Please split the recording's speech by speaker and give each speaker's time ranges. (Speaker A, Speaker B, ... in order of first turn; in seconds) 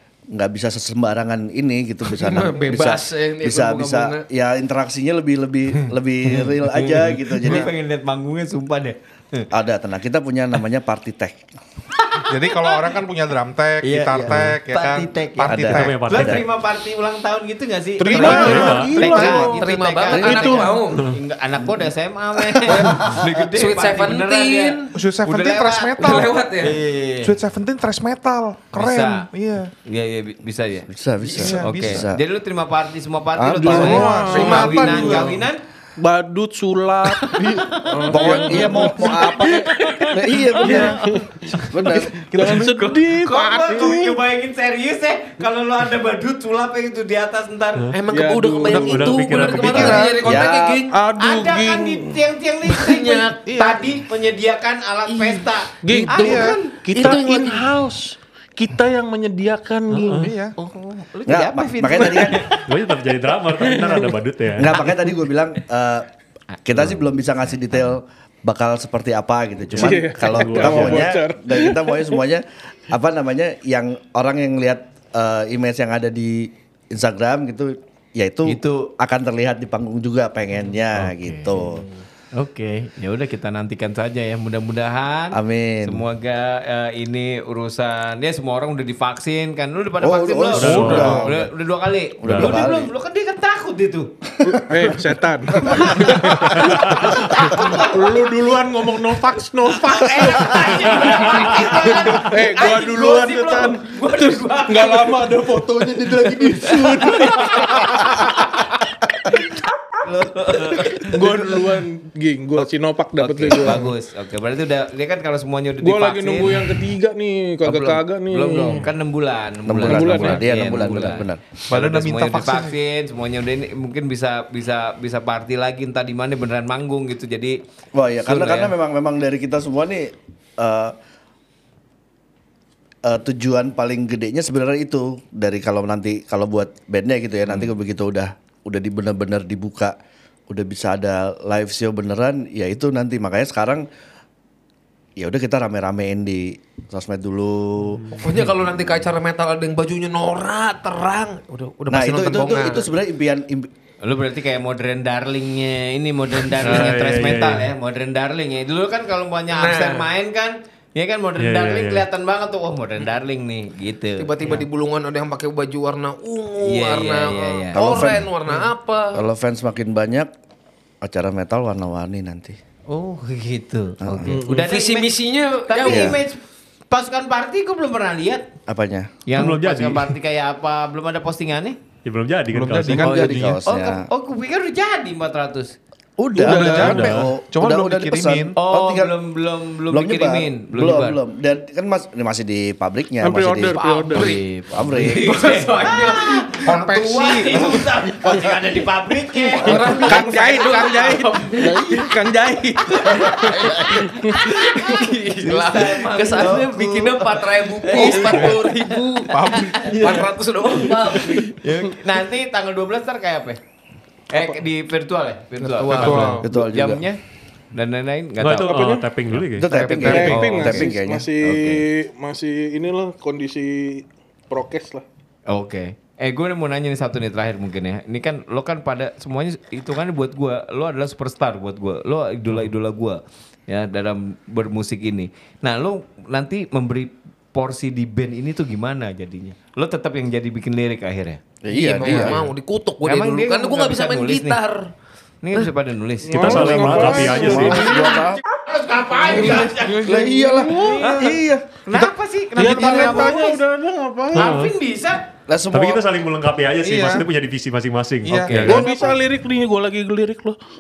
Speaker A: 0.3-7.7, 9.5-11.4, 15.5-16.4, 19.1-19.4, 20.1-20.4, 22.4-23.2, 30.9-32.2, 33.4-34.0, 38.1-41.0, 41.7-42.3, 50.2-50.8, 61.3-62.5, 64.6-66.1, 66.7-81.8, 85.3-86.0, 90.0-91.5, 92.2-92.9, 94.4-95.0, 119.7-121.4, 127.9-130.9, 133.1-139.9, 140.5-143.8, 145.2-148.1, 151.9-153.7, 167.7-168.3, 169.1-170.3, 171.0-172.6, 174.0-174.4, 175.8-176.2, 178.7-179.1, 182.9-184.1, 186.2-189.1, 189.9-193.8, 194.7-195.4, 201.6-202.1, 203.2-204.1, 216.4-217.1, 219.5-221.3, 241.6-242.4, 247.0-248.4, 249.3-251.8, 255.5-256.1
Speaker B: 2.1-4.2, 19.1-21.1, 23.5-24.9, 26.0-26.8, 47.9-51.0, 52.8-53.5, 55.1-55.5, 56.0-57.7, 101.0-102.3, 148.2-152.9, 159.5-160.1, 164.2-169.2, 174.6-176.2, 193.8-194.4, 195.0-197.8, 199.6-202.0, 202.9-211.5, 215.6-216.4, 219.7-220.3, 241.7-244.8, 248.7-249.8
Speaker C: 6.3-9.5, 12.1-12.8, 13.8-27.4, 28.7-29.3, 29.9-35.6, 37.1-47.9, 49.7-50.0, 51.2-56.6, 60.6-62.6, 78.5-78.9, 81.2-94.1, 95.5-98.2, 99.8-105.4, 106.3-108.5, 110.0-111.8, 113.2-116.8, 117.6-127.6, 128.2-128.7, 154.0-164.6, 166.6-167.8, 172.9-175.1, 175.7-178.5, 179.3-181.8, 183.2-185.8, 188.6-191.2, 194.2-200.4, 203.0-208.8, 209.3-213.6, 214.3-217.2, 217.7-218.8, 219.9-221.8, 225.5-241.4, 242.1-242.4, 243.0-244.6, 245.4-247.3, 248.7-253.6, 254.3-255.3, 258.4-258.8
Speaker D: 12.3-16.2, 18.1-19.4, 22.7-23.1, 24.9-26.3, 27.2-29.7, 31.3-32.0, 33.6-35.4, 53.5-53.8, 56.1-56.6, 60.1-60.5, 121.7-122.8, 182.5-183.6, 186.4-188.6, 196.7-197.7, 209.3-210.2, 215.9-216.5, 242.1-242.3, 251.0-251.4, 256.8-257.3, 258.2-258.9
Speaker E: 15.7-16.4, 18.3-19.1, 48.7-50.1, 60.0-60.2, 62.7-64.7, 69.8-71.1, 90.5-91.3, 92.3-92.6, 96.6-97.2, 101.0-101.5, 148.1-148.4, 156.6-157.7, 161.4-162.0, 179.4-180.1, 182.1-183.2, 186.8-187.3, 218.4-219.8, 246.3-248.0, 254.3-254.7, 255.7-258.9
Speaker F: 18.0-19.6, 20.2-20.8, 33.6-35.3, 36.0-44.2, 48.1-50.2, 50.9-52.2, 55.8-60.3, 63.6-64.2, 69.8-72.2, 90.7-91.2, 94.5-101.1, 101.7-108.3, 111.1-113.9, 115.8-118.9, 119.8-120.4, 174.3-174.7, 186.3-187.0, 193.2-194.4, 199.7-204.4, 207.9-208.5, 218.6-219.1, 220.0-225.1, 246.2-248.1, 249.3-250.7, 252.6-254.6, 258.6-260.6